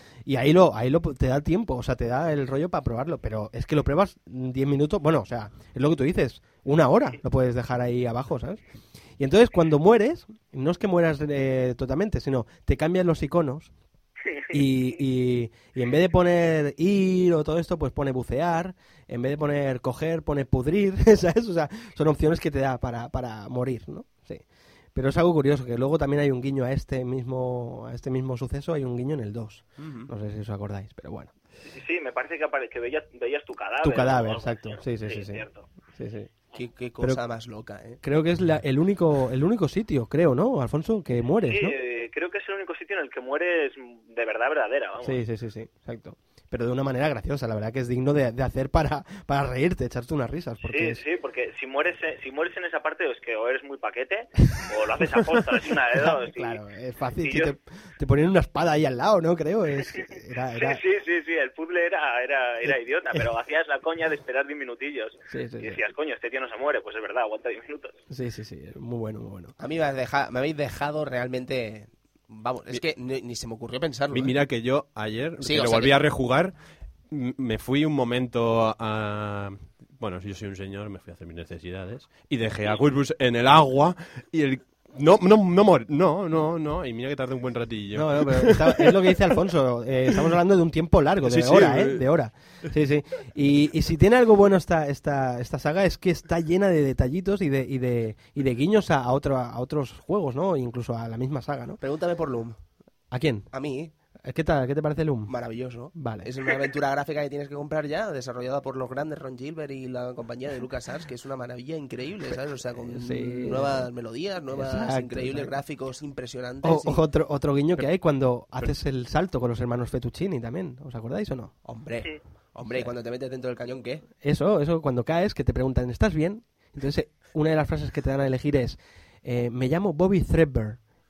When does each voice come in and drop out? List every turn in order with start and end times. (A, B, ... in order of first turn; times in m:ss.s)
0:00.2-0:08.6 A
0:09.2-0:13.7 A
0:14.5-0:24.4 A
0:24.9-0:31.3 A
0:29.8-0:30.1 B
0:31.7-0:35.7 C
0:33.8-0:36.3 A
0:36.5-0:38.0 B
0:38.0-0:41.8 A
0:41.5-0:45.2 C
0:45.0-0:51.0 A
0:50.6-0:56.6 C
0:55.1-1:00.8 A
0:57.2-0:57.5 C
1:00.6-1:08.0 C
1:05.3-1:05.8 A
1:08.1-1:09.5 A
1:09.6-1:14.4 B
1:14.1-1:16.5 D
1:15.4-1:16.0 B
1:17.1-1:28.9 D
1:27.9-1:41.8 A
1:31.2-1:32.0 D
1:41.8-1:42.6 B
1:43.1-1:43.5 A
1:43.5-1:43.9 B
1:44.2-1:45.3 A
1:45.3-1:57.0 B
1:45.9-1:46.3 A
1:52.9-1:53.9 A
1:54.5-1:55.6 A
1:56.6-2:01.5 A
2:01.6-2:04.0 B
2:04.2-2:10.8 A